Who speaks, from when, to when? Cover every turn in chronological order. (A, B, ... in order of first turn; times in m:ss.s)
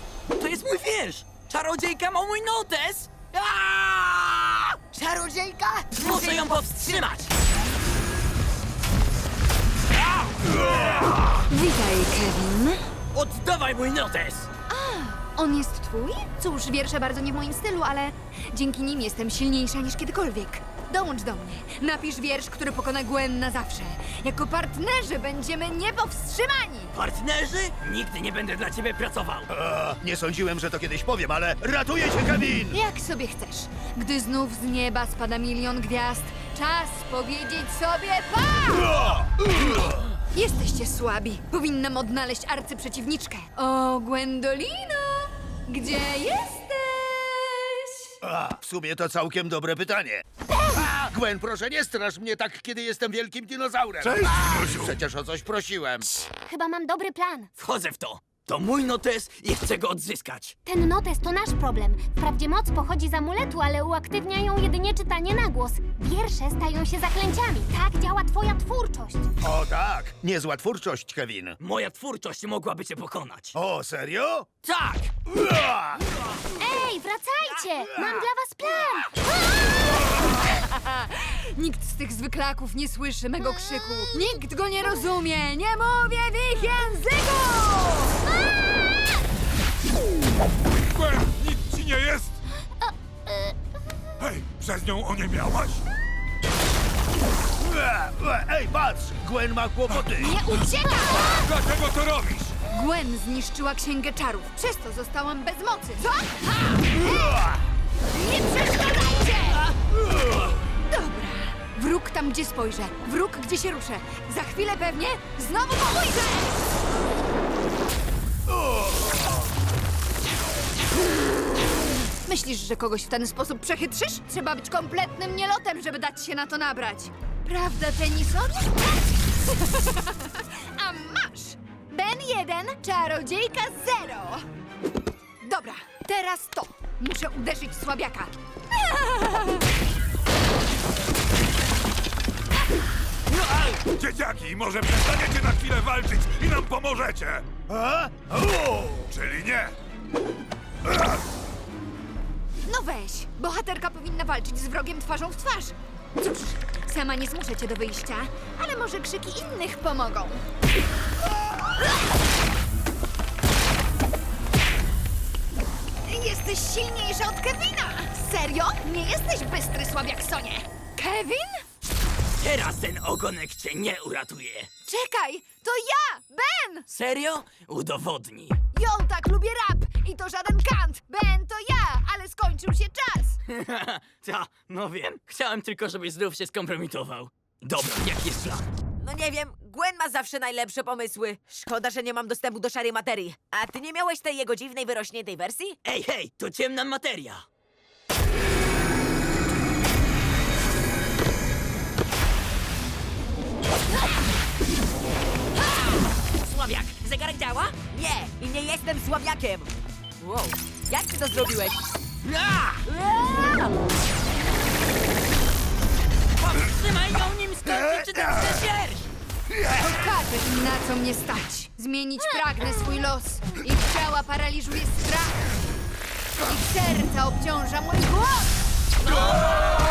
0:00.3-0:04.8 A
0:04.9-0:06.2 B
0:05.9-0:07.3 A
0:11.5-0:12.8 C
0:13.1-0:14.5 A
0:14.7-0:27.0 C
0:26.9-0:29.5 A
0:29.5-0:32.8 D
0:32.7-0:39.2 C
0:38.8-0:39.5 D
0:40.3-0:48.2 C
0:48.2-0:56.1 D
0:56.1-0:57.5 E
0:57.6-1:00.6 A
1:00.6-1:09.3 E
1:09.4-1:11.6 D
1:11.6-1:13.5 A
1:13.5-1:14.5 D
1:14.6-1:15.1 A
1:15.3-1:16.0 D
1:16.6-1:19.6 E
1:20.3-1:28.2 C
1:30.9-1:32.4 F
1:34.2-1:35.8 F
1:37.6-1:40.4 D
1:40.1-1:41.4 C
1:41.2-1:42.5 F
1:42.7-1:47.4 C
1:48.1-1:49.7 C
1:50.8-1:56.6 C
2:02.2-2:08.9 C
2:09.5-2:14.4 C
2:15.4-2:19.5 C
2:23.4-2:23.7 A
2:23.8-2:27.5 F
2:27.7-2:29.1 D
2:29.1-2:29.8 F
2:32.6-2:40.4 C
2:46.0-2:51.6 C
2:52.4-2:54.7 A
2:54.8-2:56.9 C
2:56.9-2:58.6 A
2:58.7-3:03.4 C
3:03.5-3:08.6 A
3:09.0-3:15.8 B
3:15.8-3:17.4 A
3:26.4-3:31.8 B
3:32.2-3:32.8 A
3:32.9-3:33.8 B
3:36.4-3:39.1 A
3:39.7-3:45.4 C
3:46.4-3:48.6 C